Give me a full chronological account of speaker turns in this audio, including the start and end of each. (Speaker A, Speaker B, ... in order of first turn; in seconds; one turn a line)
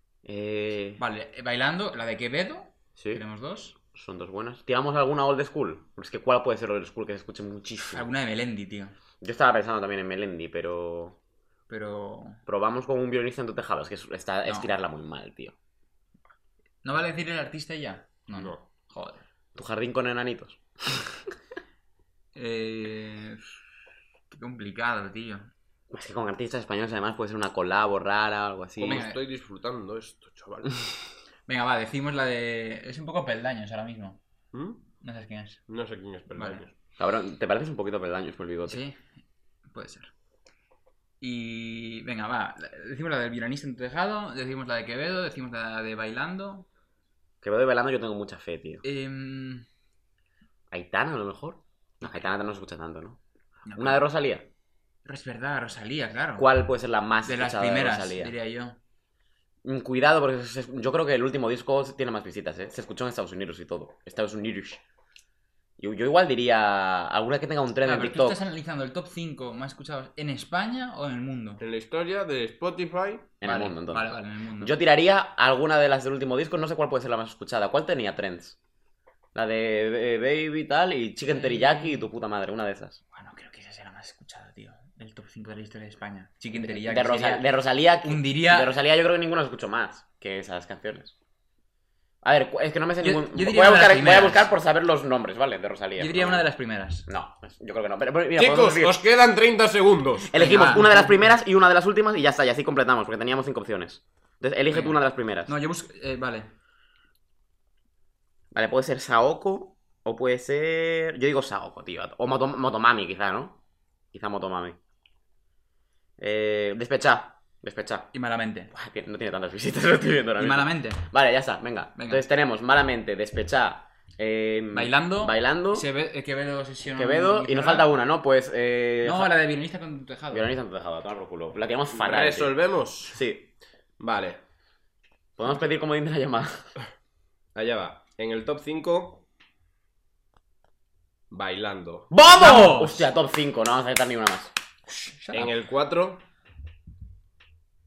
Speaker A: 0.2-1.0
Speaker B: 1.0-3.8
Speaker A: 3.0-3.2
Speaker A: 3.9-8.1
Speaker B: 7.9-8.9
Speaker A: 9.2-11.2
Speaker B: 11.7-12.4
Speaker A: 12.5-15.6
Speaker B: 14.4-14.7
Speaker B: 16.8-19.2
Speaker C: 18.3-18.6
Speaker A: 19.6-21.0
Speaker B: 22.4-23.4
Speaker B: 24.3-25.5
Speaker A: 25.9-29.0
Speaker C: 28.8-30.8
Speaker B: 28.9-29.2
Speaker B: 31.5-34.2
Speaker C: 34.5-34.8
Speaker B: 35.0-35.6
Speaker C: 35.7-36.7
Speaker B: 36.4-36.6
Speaker A: 37.0-38.8
Speaker B: 38.7-39.0
Speaker B: 39.7-40.1
Speaker B: 41.2-46.7
Speaker A: 47.4-48.8
Speaker B: 48.8-49.6
Speaker A: 50.7-53.2
Speaker B: 53.7-54.0
Speaker A: 53.8-54.5
Speaker B: 55.0-56.5
Speaker A: 56.4-58.3
Speaker B: 57.2-58.8
Speaker A: 59.6-64.8
Speaker A: 65.8-68.4
Speaker B: 67.8-71.6
Speaker C: 71.6-73.3
Speaker A: 73.4-78.6
Speaker B: 73.4-74.7
Speaker A: 79.3-83.0
Speaker B: 81.3-82.0
Speaker B: 83.1-87.5
Speaker A: 86.5-91.2
Speaker B: 88.0-88.7
Speaker A: 92.2-96.5
Speaker B: 93.0-94.5
Speaker B: 96.0-97.1
Speaker A: 97.1-99.0
Speaker C: 98.4-100.3
Speaker A: 100.3-105.5
Speaker B: 100.4-101.3
Speaker B: 104.7-106.5
Speaker A: 108.5-113.6
Speaker A: 114.1-114.8
Speaker A: 116.2-118.1
Speaker B: 118.1-118.7
Speaker A: 118.7-125.9
Speaker B: 120.4-121.1
Speaker B: 122.0-122.2
Speaker B: 124.7-127.9
Speaker A: 126.9-129.3
Speaker B: 129.0-130.5
Speaker A: 130.3-132.5
Speaker C: 131.9-133.2
Speaker A: 133.1-133.5
Speaker C: 134.0-134.4
Speaker A: 135.4-136.6
Speaker C: 137.6-139.2
Speaker C: 141.3-142.1
Speaker A: 142.1-144.5
Speaker B: 142.4-143.1
Speaker B: 145.0-145.5
Speaker C: 145.3-146.2